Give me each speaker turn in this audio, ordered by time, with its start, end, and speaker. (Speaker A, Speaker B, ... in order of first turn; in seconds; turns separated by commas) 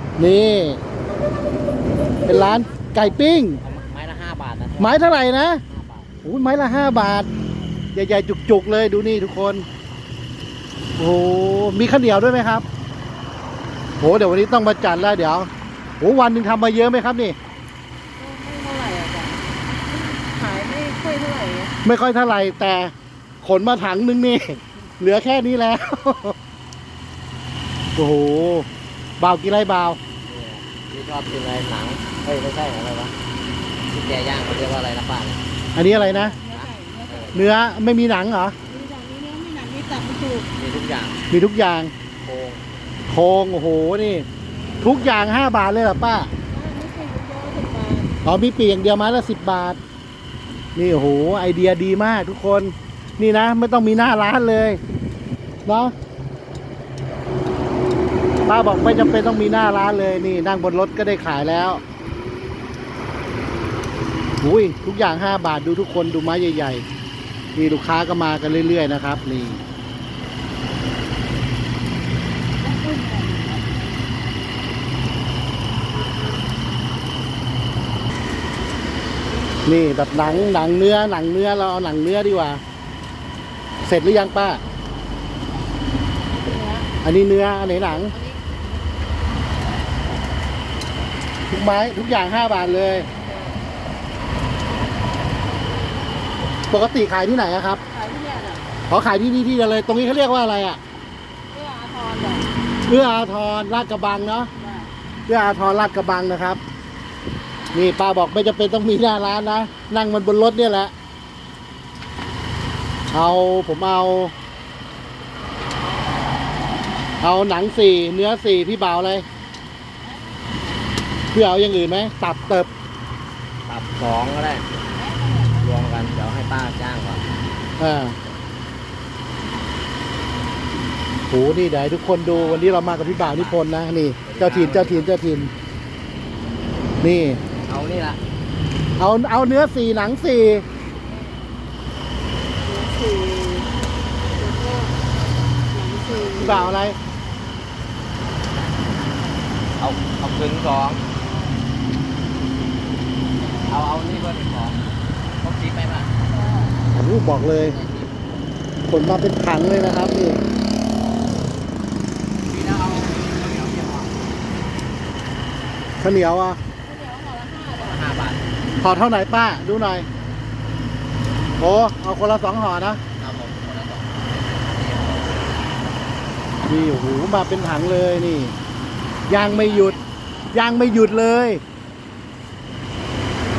Speaker A: 0.2-0.8, Speaker A: 2.2-3.6, Speaker B: 3.6-5.1, Speaker A: 4.8-5.6, Speaker B: 5.7-6.1, Speaker A: 6.2-7.3, Speaker A: 7.9-9.7, Speaker A: 11.0-12.7, Speaker A: 14.0-17.4, Speaker C: 18.2-21.8, Speaker A: 21.8-26.4, Speaker A: 28.0-28.7, Speaker A: 29.2-30.0, Speaker B: 30.3-33.1, Speaker B: 33.9-35.4, Speaker A: 35.8-36.4, Speaker C: 35.8-37.7, Speaker B: 36.5-37.5, Speaker A: 37.3-38.5, Speaker C: 38.7-40.5, Speaker B: 40.6-41.2, Speaker A: 41.3-41.9, Speaker B: 42.2-42.6, Speaker A: 43.1-44.3, Speaker C: 44.6-44.9, Speaker A: 44.8-46.3, Speaker C: 46.5-48.2, Speaker A: 48.2-49.8, Speaker A: 50.8-54.8, Speaker A: 55.7-55.9, Speaker A: 58.5-61.8, Speaker A: 64.4-66.8, Speaker A: 67.5-69.6, Speaker C: 72.7-73.6, Speaker A: 79.7-82.6, Speaker A: 83.8-84.6, Speaker C: 86.3-86.9, Speaker A: 87.0-88.2, Speaker C: 87.6-88.6, Speaker A: 91.5-93.1, Speaker C: 93.2-93.6, Speaker A: 96.7-97.8, Speaker C: 97.9-98.7, Speaker A: 98.9-100.8, Speaker C: 101.5-102.5, Speaker A: 102.9-104.5, Speaker C: 104.6-104.9, Speaker A: 105.3-106.6, Speaker A: 107.7-110.9, Speaker A: 113.1-114.3, Speaker A: 117.2-119.3, Speaker A: 121.3-122.7, Speaker B: 123.7-124.7, Speaker C: 124.9-125.7, Speaker B: 125.5-127.2, Speaker A: 127.8-128.2, Speaker A: 131.3-135.5, Speaker C: 132.2-132.8, Speaker B: 133.0-133.6, Speaker B: 134.2-135.1, Speaker A: 137.0-137.4, Speaker B: 137.7-138.2, Speaker A: 139.0-140.7, Speaker C: 141.1-141.4, Speaker C: 142.7-143.7, Speaker C: 144.3-144.9, Speaker C: 145.7-146.8, Speaker A: 146.3-147.0, Speaker B: 149.8-151.0, Speaker C: 151.2-151.6, Speaker B: 153.7-154.8, Speaker B: 155.4-156.1, Speaker C: 156.3-156.7, Speaker A: 156.9-157.8, Speaker B: 157.6-158.2, Speaker A: 158.9-160.4, Speaker B: 162.5-164.1, Speaker A: 166.0-166.6, Speaker C: 166.8-168.1, Speaker B: 167.8-168.5, Speaker A: 168.8-170.1, Speaker A: 171.6-173.0, Speaker B: 173.2-175.5, Speaker A: 176.7-178.6, Speaker A: 179.3-180.0, Speaker B: 179.3-180.0, Speaker A: 180.5-181.6